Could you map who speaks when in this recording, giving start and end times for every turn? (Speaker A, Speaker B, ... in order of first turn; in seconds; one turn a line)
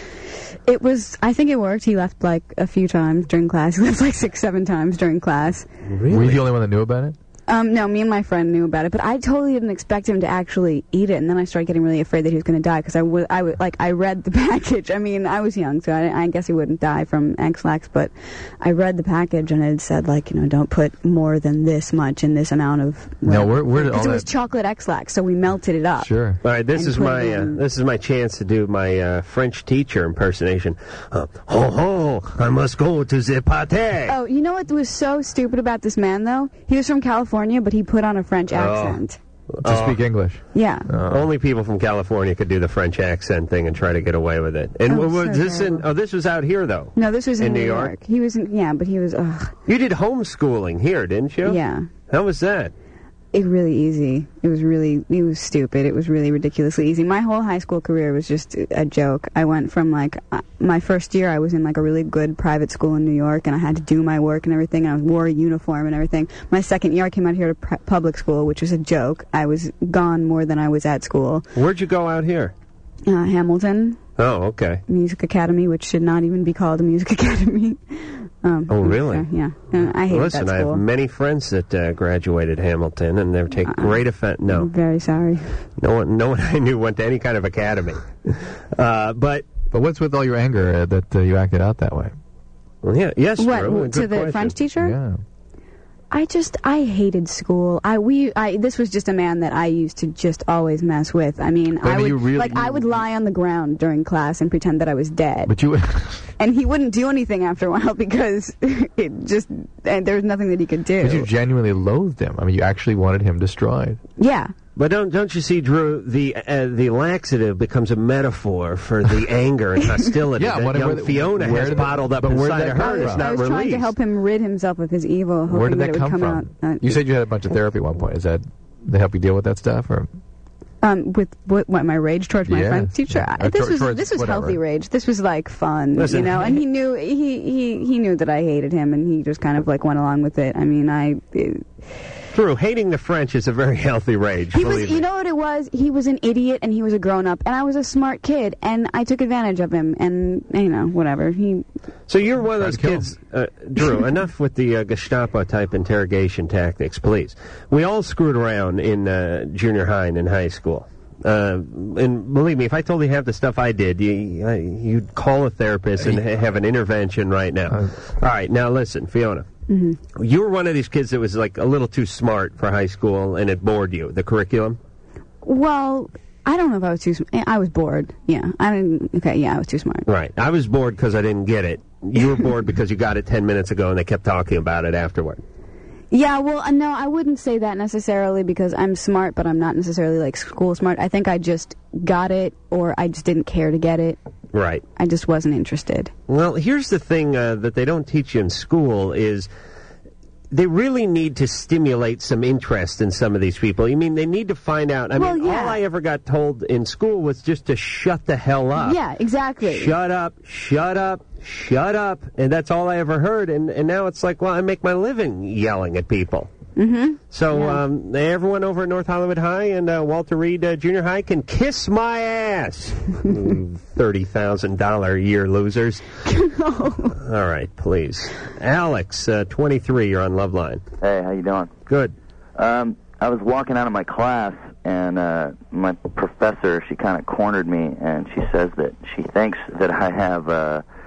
Speaker A: 0.7-5.7
Speaker B: 5.9-6.4
Speaker C: 6.1-7.2
Speaker A: 7.5-26.1
Speaker C: 23.2-24.3
Speaker C: 26.0-26.4
Speaker B: 26.4-34.1
Speaker A: 26.8-27.6
Speaker A: 34.1-39.2
Speaker B: 38.5-39.0
Speaker B: 39.6-40.0
Speaker C: 39.6-41.3
Speaker A: 40.5-40.9
Speaker B: 41.1-47.9
Speaker A: 44.9-45.8
Speaker A: 47.0-49.6
Speaker B: 49.7-52.7
Speaker A: 51.5-51.9
Speaker A: 53.3-71.5
Speaker B: 71.5-72.5
Speaker A: 73.1-74.0
Speaker B: 74.2-74.8
Speaker A: 74.9-80.8
Speaker B: 78.7-79.3
Speaker B: 79.9-84.7
Speaker A: 83.7-85.7
Speaker B: 85.8-89.5
Speaker C: 89.7-92.1
Speaker B: 92.8-94.5
Speaker A: 93.4-95.0
Speaker C: 94.8-95.2
Speaker A: 96.1-105.5
Speaker C: 101.8-103.0
Speaker C: 105.5-106.3
Speaker A: 106.4-111.3
Speaker C: 111.0-114.0
Speaker A: 114.2-114.5
Speaker B: 114.8-123.9
Speaker C: 120.4-123.3
Speaker A: 122.8-127.0
Speaker C: 125.5-130.1
Speaker A: 130.8-141.7
Speaker C: 132.5-134.6
Speaker B: 135.9-136.6
Speaker B: 142.3-145.0
Speaker A: 144.5-151.7
Speaker B: 152.1-169.5
Speaker C: 152.6-153.1
Speaker C: 167.7-167.9
Speaker A: 169.7-170.0
Speaker B: 170.1-174.8
Speaker A: 175.4-180.1
Speaker B: 180.1-185.4
Speaker A: 186.1-194.2
Speaker B: 194.5-194.8
Speaker A: 194.9-196.1
Speaker B: 196.3-199.5
Speaker B: 200.5-209.0
Speaker A: 205.2-205.8
Speaker A: 208.8-209.9
Speaker B: 209.6-216.5
Speaker A: 216.8-217.8
Speaker B: 217.3-226.1
Speaker A: 226.2-227.2
Speaker B: 227.1-230.8
Speaker D: 231.0-231.7
Speaker B: 231.9-232.1
Speaker D: 232.6-240.8